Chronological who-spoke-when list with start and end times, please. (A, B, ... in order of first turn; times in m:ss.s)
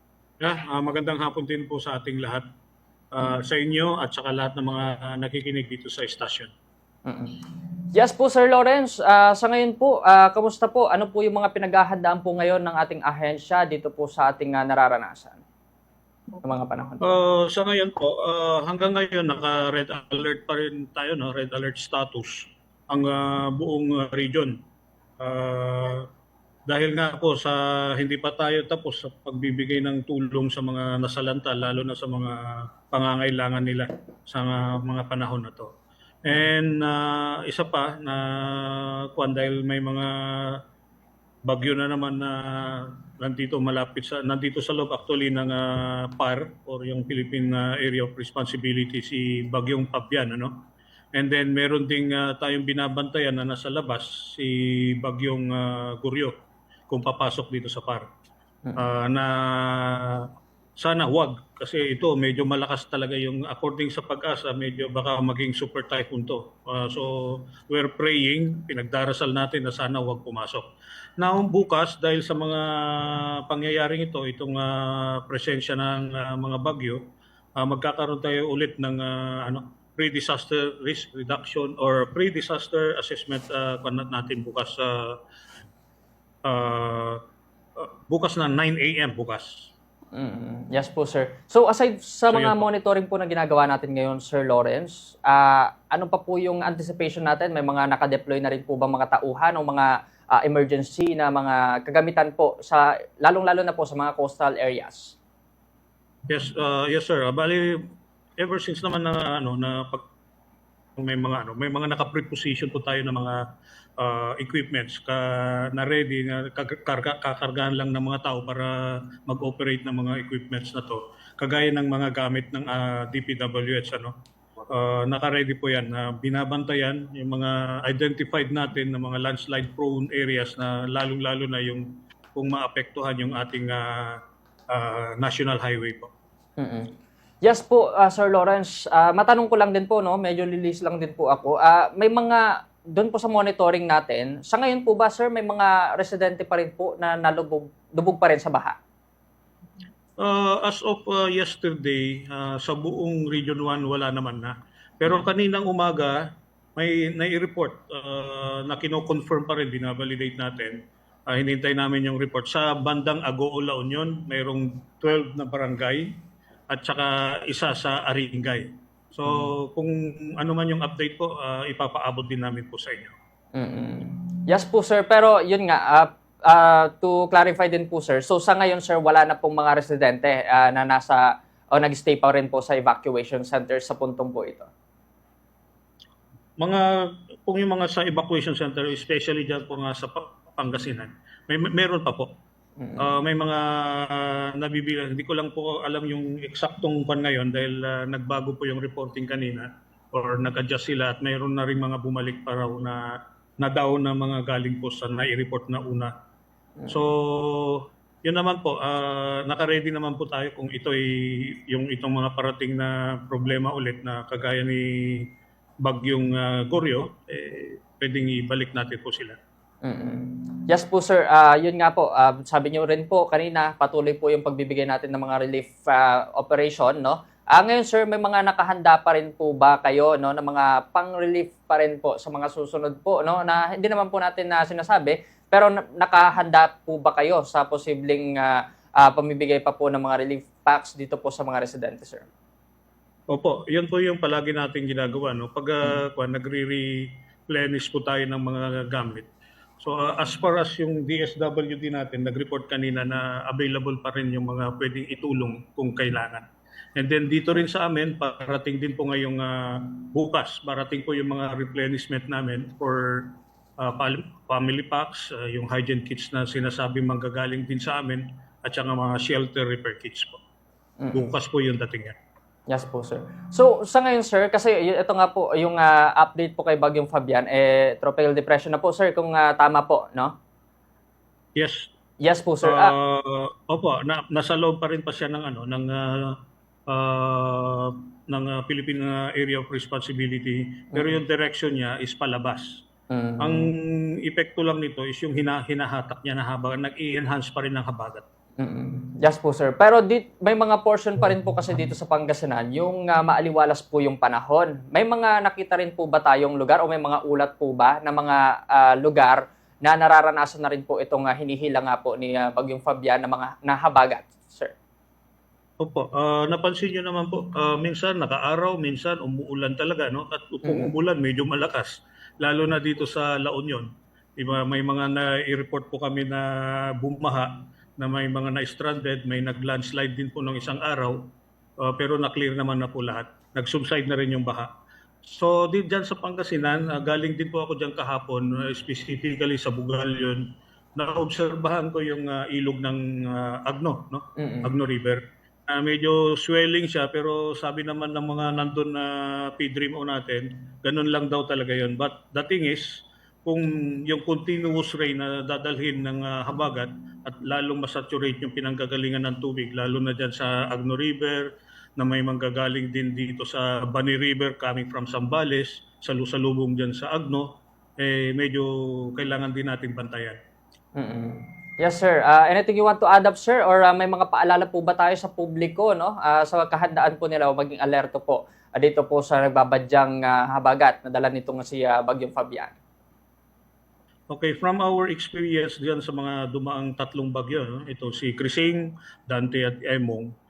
0:00.4-0:02.4 A
0:03.1-0:06.5 A
0:07.0-0:15.4 B
0:16.4-0:17.1 B
0:17.0-0:24.5 A
0:25.2-0:26.1 A
0:26.7-0:35.7 A
0:36.2-0:40.6 A
0:41.4-0:50.6 A
0:51.1-0:56.3 A
0:56.9-0:58.1 A
0:58.8-1:10.7 A
1:11.2-1:17.0 A
1:17.6-1:25.2 A
1:26.4-1:27.2 A
1:27.8-1:29.7 A
1:30.1-1:45.2 B
1:32.3-1:32.6 A
1:46.3-1:47.8 A
1:48.4-1:50.0 A
1:51.0-1:53.4 A
1:54.0-2:04.1 A
2:04.7-2:14.2 A
2:14.7-2:16.1 A
2:16.6-2:28.8 B
2:30.2-2:46.1 A
2:46.7-2:53.1 A
2:53.5-3:04.7 B
3:06.6-3:12.3 A
3:13.0-3:23.0 A
3:23.6-3:26.1 A
3:26.9-3:35.3 A
3:35.8-3:39.4 A
3:39.8-4:02.3 B
4:03.3-4:09.3 A
4:09.8-4:16.4 A
4:17.0-4:30.4 A
4:31.0-4:31.2 B
4:31.1-4:32.2 A
4:32.7-4:40.3 B
4:41.6-4:41.9 A
4:42.2-4:42.9 B
4:42.6-4:52.8 A
4:53.1-4:53.7 B
4:53.4-4:58.2 A
4:58.6-5:14.7 B
5:15.8-5:34.7 A
5:20.6-5:20.9 B
5:35.2-6:10.4 A
5:44.4-5:44.7 B
6:11.0-6:22.8 B
6:24.3-6:30.3 A